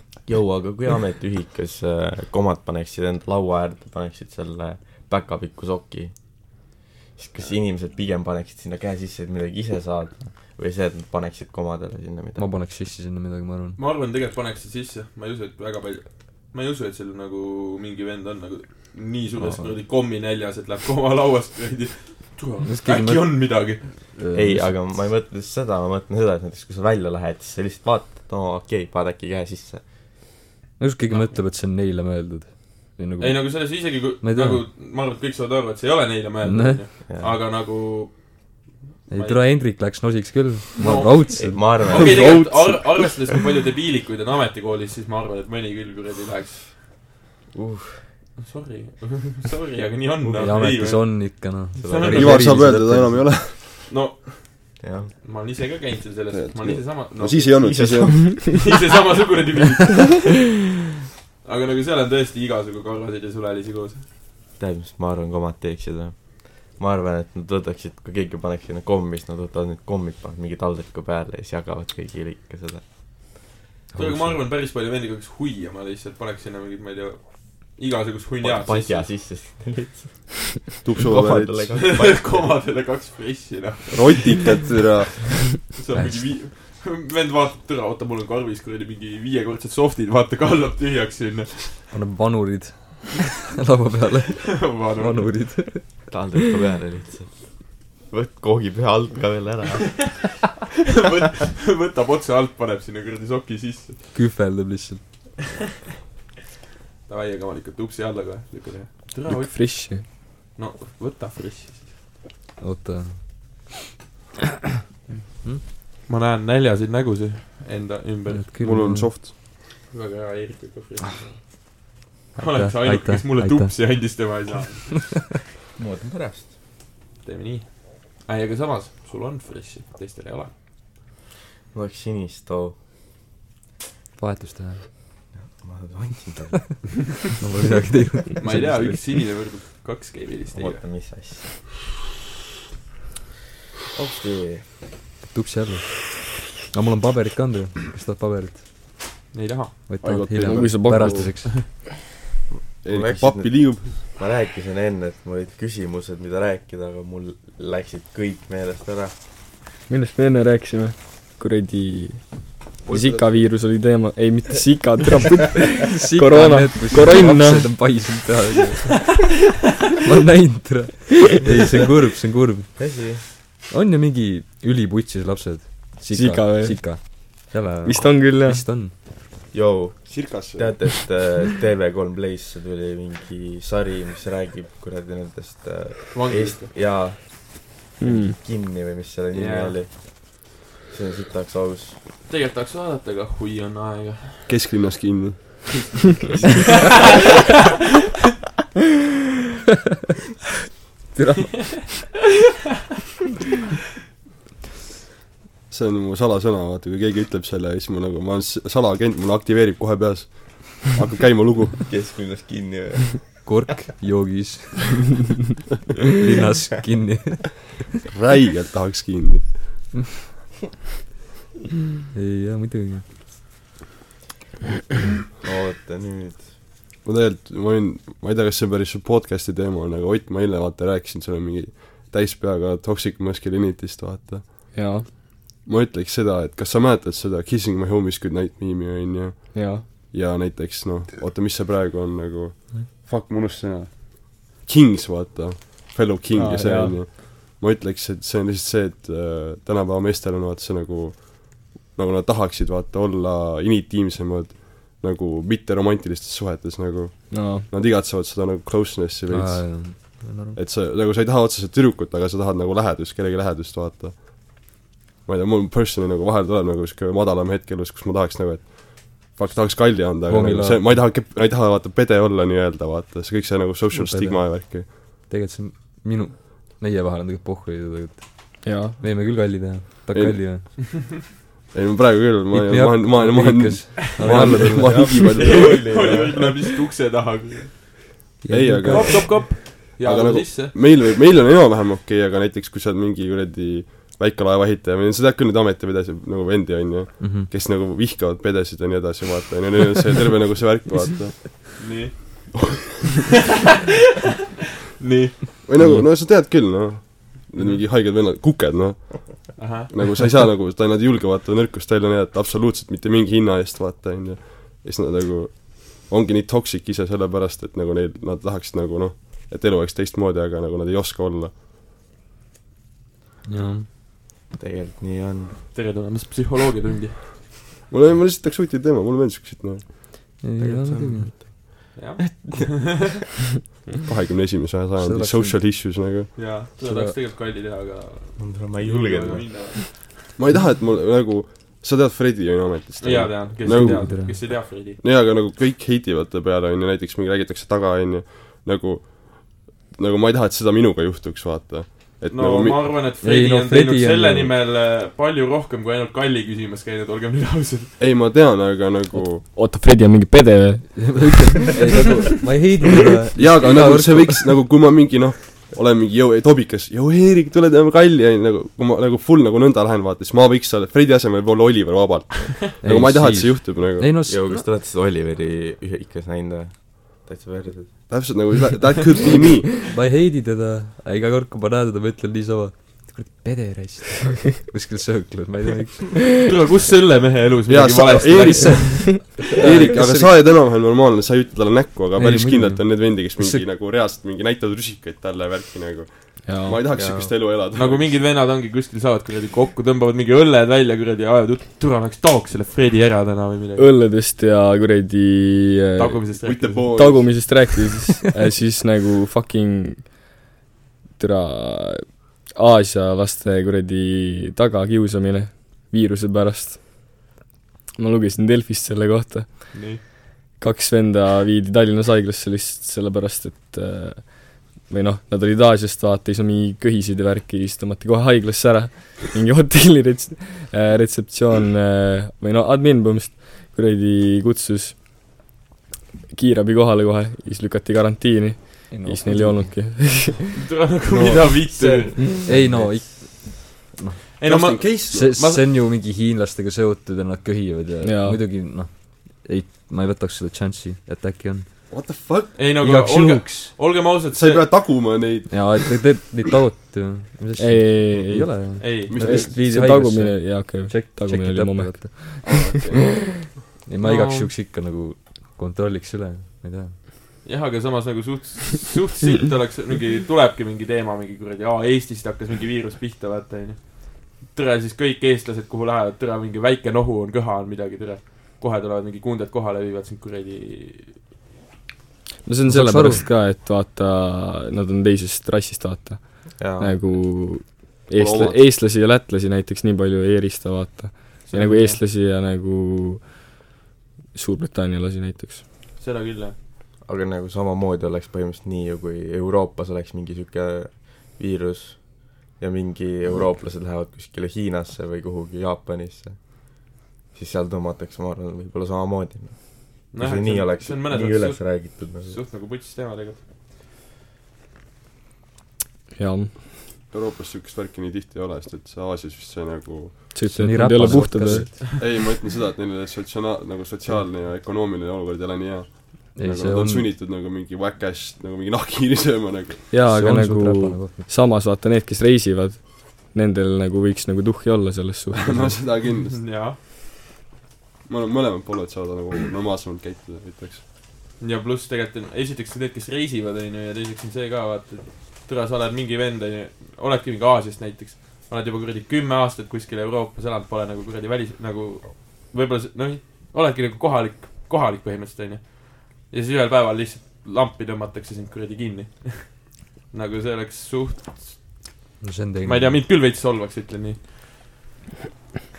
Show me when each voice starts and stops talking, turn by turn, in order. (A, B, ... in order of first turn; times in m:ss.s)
0:00.3-0:12.5 A
0:12.4-0:13.8 B
0:13.8-0:24.0 C
0:22.6-0:24.8 B
0:24.3-0:29.8 A
0:30.8-0:34.6 B
0:31.1-0:31.4 C
0:33.2-0:39.4 C
0:36.4-0:36.8 B
0:37.1-0:37.4 A
0:39.1-0:41.8 B
0:40.8-0:46.8 C
0:41.4-0:42.6 A
0:47.5-0:48.0 A
0:48.4-0:52.7 C
0:50.2-0:50.7 A
0:50.4-0:53.3 B
0:51.8-0:52.3 A
0:52.1-0:53.8 D
0:53.9-1:00.3 C
0:54.8-0:55.1 A
0:56.3-0:58.5 D
0:57.6-0:58.2 A
1:01.4-1:04.1 C
1:04.6-1:13.4 A
1:14.0-1:19.2 C
1:18.4-1:22.6 A
1:20.8-1:21.9 D
1:21.8-1:24.6 C
1:23.9-1:25.6 D
1:25.7-1:31.8 C
1:25.9-1:26.3 B
1:31.9-1:36.2 B
1:34.6-1:35.8 C
1:36.1-1:40.1 A
1:40.9-1:44.0 C
1:44.1-1:45.0 B
1:47.1-1:52.0 C
1:49.3-1:50.1 E
1:52.6-1:53.6 B
1:56.1-1:58.4 C
1:58.3-1:59.1 B
1:58.6-1:59.4 D
1:59.9-2:01.5 C
2:02.4-2:04.2 B
2:02.4-2:05.3 C
2:05.8-2:06.5 A
2:07.2-2:10.5 C
2:11.7-2:12.8 A
2:14.2-2:14.8 B
2:15.3-2:17.0 A
2:17.4-2:19.0 B
2:18.4-2:20.8 C
2:20.5-2:21.6 A
2:23.9-2:24.7 A
2:25.3-2:28.6 B
2:29.3-2:29.8 C
2:29.9-2:31.6 B
2:30.0-2:31.3 D
2:30.4-2:31.5 E
2:32.5-2:39.2 A
2:32.8-2:34.0 D
2:39.9-2:48.1 E
2:42.9-2:43.4 D
2:45.8-2:49.3 B
2:50.0-2:58.9 B
2:52.8-2:53.2 A
2:56.1-2:58.7 E
2:59.5-3:12.0 A
3:00.1-3:00.7 D
3:06.1-3:06.8 C
3:08.0-3:08.4 E
3:09.3-3:09.9 C
3:12.3-3:14.6 C
3:14.5-3:15.9 D
3:21.2-3:21.8 B
3:25.7-3:31.9 D
3:31.9-3:33.6 A
3:33.4-3:35.1 B
3:36.2-3:37.8 B
3:38.1-3:39.9 D
3:42.1-3:43.0 B
3:45.4-3:46.5 A
3:47.0-3:55.0 D
3:54.7-3:55.1 E
3:55.6-4:34.9 D
3:59.5-3:59.8 E
4:06.4-4:07.0 E
4:17.3-4:17.7 E
4:19.3-4:20.6 B
4:30.2-4:31.0 B
4:33.9-4:40.7 B
4:38.6-4:39.0 E
4:40.1-4:40.7 D
4:41.7-4:46.2 D
4:42.5-4:45.3 B
4:44.3-4:46.6 A
4:45.2-4:47.9 C
4:48.4-4:49.3 B
4:48.5-5:01.9 D
4:48.9-4:50.9 C
4:57.2-4:57.5 B
5:01.8-5:02.7 C
5:05.0-5:05.6 C
5:05.7-5:21.5 D
5:05.8-5:06.1 B
5:07.6-5:07.8 C
5:09.6-5:10.1 C
5:23.5-5:23.9 B
5:24.5-5:25.6 A
5:25.7-5:27.3 C
5:27.9-5:30.3 D
5:30.4-5:31.5 B
5:30.6-5:33.1 A
5:32.0-5:32.9 C
5:34.1-5:36.3 D
5:35.0-5:35.6 B
5:36.4-5:40.1 C
5:36.8-5:37.2 B
5:38.4-5:39.8 A
5:40.4-5:52.9 D
5:43.0-5:45.0 C
5:43.6-5:44.4 B
5:52.3-5:57.9 C
5:53.2-5:54.5 B
5:58.0-5:59.4 D
5:59.5-6:02.0 E
6:01.0-6:04.6 B
6:03.4-6:14.1 D
6:12.8-6:14.7 B
6:14.3-6:18.2 A
6:18.1-6:19.7 D
6:19.9-6:26.3 B
6:26.5-6:29.0 C
6:27.7-6:38.2 D
6:29.3-6:30.3 B
6:32.2-6:33.6 B
6:36.4-6:36.9 E
6:36.9-6:37.3 A
6:37.7-6:43.9 C
6:43.8-6:46.3 E
6:46.0-6:47.1 C
6:46.4-6:47.6 D
6:46.9-6:50.2 E
6:51.2-6:57.2 E
6:58.0-7:00.0 E
6:59.7-7:00.0 C
7:00.6-7:15.0 E
7:16.3-7:20.6 E
7:18.9-7:20.0 B
7:20.6-7:22.4 C
7:21.7-7:23.1 A
7:22.5-7:31.9 B
7:24.4-7:25.7 C
7:24.4-7:25.3 D
7:28.0-7:28.5 E
7:31.9-7:32.6 D
7:32.6-7:35.0 C
7:32.8-7:33.7 B
7:34.3-7:35.8 D
7:35.5-7:42.7 B
7:37.6-7:42.7 E
7:38.8-7:39.2 C
7:39.1-7:39.6 D
7:42.4-7:43.5 D
7:43.9-7:47.0 B
7:44.0-7:44.5 C
7:47.4-8:01.2 C
8:02.4-8:13.5 E
8:02.7-8:03.3 B
8:06.6-8:07.0 A
8:08.2-8:08.6 D
8:11.5-8:12.0 C
8:14.3-8:15.6 E
8:16.0-8:16.6 C
8:17.0-8:32.4 A
8:30.1-8:33.4 C
8:36.2-8:36.6 E
8:37.1-8:40.5 D
8:40.3-8:41.8 E
8:40.4-8:41.9 B
8:42.0-8:49.9 D
8:46.4-8:47.1 B
8:49.9-8:55.8 E
8:50.1-8:51.3 B
8:55.4-8:56.4 D
8:55.9-8:56.8 C
8:58.1-9:00.8 D
9:01.4-9:21.9 C
9:22.2-9:23.0 B
9:22.6-9:24.3 C